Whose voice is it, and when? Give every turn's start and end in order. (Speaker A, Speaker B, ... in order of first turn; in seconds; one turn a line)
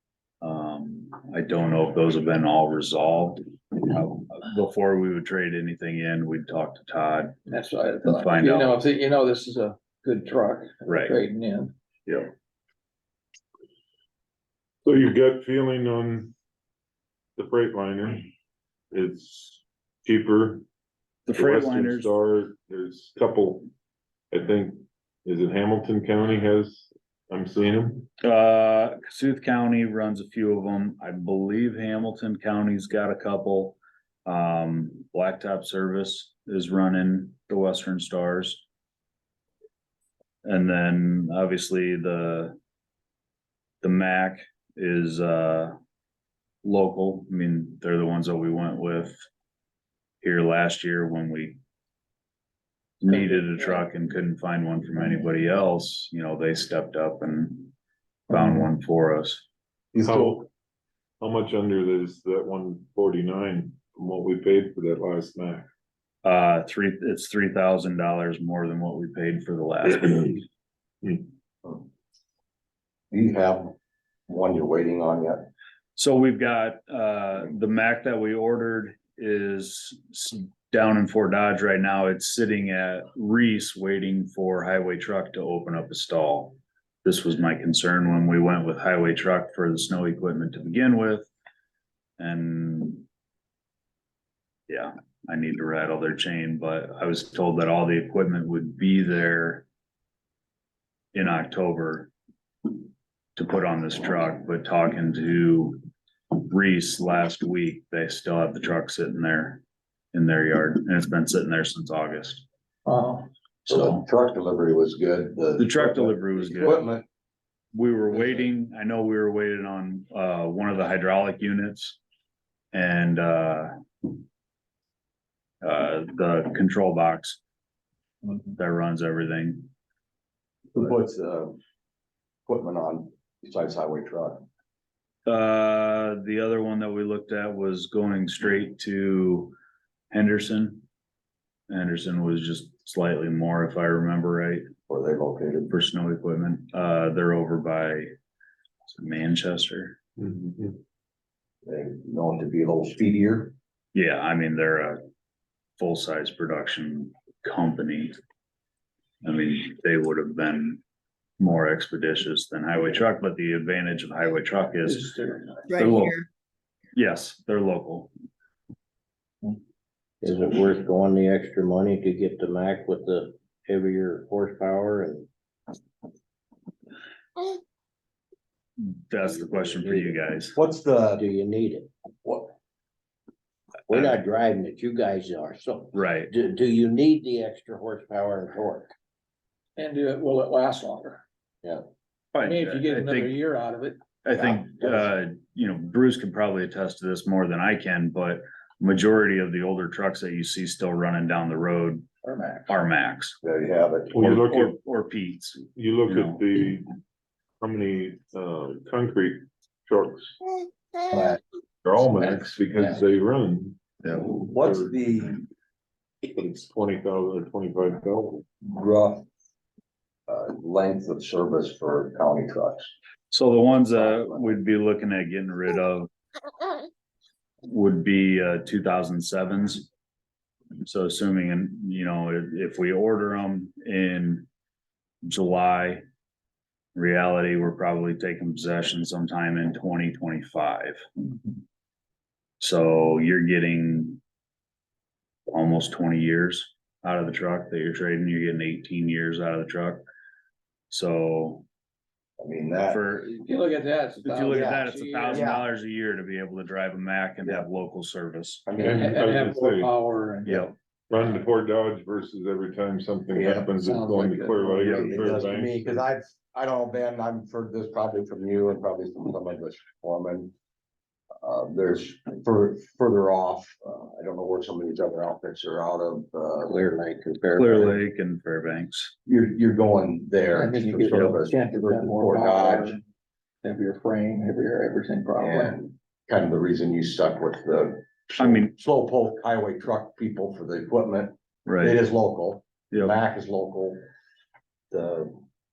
Speaker A: 0.4-7.3
Speaker B: 7.5-11.7
Speaker A: 8.0-8.8
Speaker A: 10.8-11.2
Speaker C: 14.8-16.3
Speaker C: 17.4-18.3
Speaker C: 18.9-20.6
Speaker A: 21.3-22.1
Speaker C: 21.3-23.7
Speaker C: 24.3-28.1
Speaker A: 28.2-38.6
Speaker A: 40.4-42.5
Speaker A: 43.8-45.7
Speaker A: 46.6-49.1
Speaker A: 50.2-51.6
Speaker A: 53.0-57.7
Speaker B: 53.1-53.8
Speaker A: 58.3-59.4
Speaker D: 59.9-60.4
Speaker C: 60.0-60.5
Speaker C: 61.2-65.7
Speaker A: 66.2-70.4
Speaker D: 73.1-73.7
Speaker D: 74.3-75.5
Speaker A: 76.0-91.3
Speaker A: 92.2-93.0
Speaker A: 94.7-99.7
Speaker A: 101.1-102.1
Speaker A: 103.3-105.8
Speaker A: 106.3-109.6
Speaker A: 110.1-112.4
Speaker B: 112.8-113.3
Speaker A: 113.7-114.0
Speaker D: 113.7-117.0
Speaker A: 115.6-116.9
Speaker A: 117.7-122.0
Speaker A: 122.7-123.7
Speaker A: 125.6-127.4
Speaker A: 128.5-129.7
Speaker D: 130.7-131.6
Speaker D: 132.5-134.5
Speaker A: 135.2-139.5
Speaker A: 140.1-140.8
Speaker A: 141.7-144.7
Speaker D: 144.9-145.7
Speaker A: 145.7-148.1
Speaker A: 148.9-150.0
Speaker C: 150.2-150.8
Speaker D: 151.6-153.5
Speaker A: 153.9-155.0
Speaker A: 155.8-158.2
Speaker A: 159.2-160.8
Speaker A: 161.4-166.2
Speaker B: 164.8-166.0
Speaker A: 166.9-168.1
Speaker E: 170.2-175.3
Speaker A: 178.8-180.6
Speaker E: 179.5-180.2
Speaker D: 180.5-181.2
Speaker E: 181.1-181.9
Speaker D: 182.2-182.5
Speaker E: 183.9-188.9
Speaker A: 185.9-186.3
Speaker B: 189.8-191.2
Speaker A: 192.3-193.3
Speaker B: 192.4-194.0
Speaker A: 194.2-202.1
Speaker D: 194.3-195.1
Speaker B: 202.2-202.7
Speaker A: 202.7-203.4
Speaker D: 203.4-204.4
Speaker C: 204.2-204.8
Speaker A: 204.2-206.4
Speaker C: 205.7-206.9
Speaker C: 207.6-210.3
Speaker C: 211.8-214.9
Speaker D: 214.0-215.4
Speaker C: 216.2-218.4
Speaker D: 218.6-219.2
Speaker D: 220.3-222.9
Speaker A: 223.3-226.1
Speaker D: 224.0-224.5
Speaker A: 227.6-229.9
Speaker A: 230.8-234.4
Speaker A: 235.2-236.0
Speaker A: 236.9-241.0
Speaker A: 242.6-244.2
Speaker A: 245.5-250.0
Speaker A: 250.9-251.6
Speaker D: 252.4-253.0
Speaker A: 252.9-253.5
Speaker B: 253.4-255.6
Speaker A: 254.2-258.7
Speaker D: 254.5-255.6
Speaker D: 258.6-259.3
Speaker C: 258.8-259.9
Speaker B: 258.8-260.7
Speaker A: 260.4-260.7
Speaker C: 261.1-266.0
Speaker D: 263.3-270.5
Speaker B: 263.8-265.3
Speaker D: 271.4-276.8
Speaker E: 276.6-278.0
Speaker A: 277.6-279.1
Speaker D: 279.2-283.0
Speaker B: 280.5-283.0
Speaker B: 283.6-285.8
Speaker D: 285.4-294.0
Speaker A: 288.4-288.7
Speaker A: 291.6-292.0
Speaker A: 292.9-293.2
Speaker D: 294.9-295.3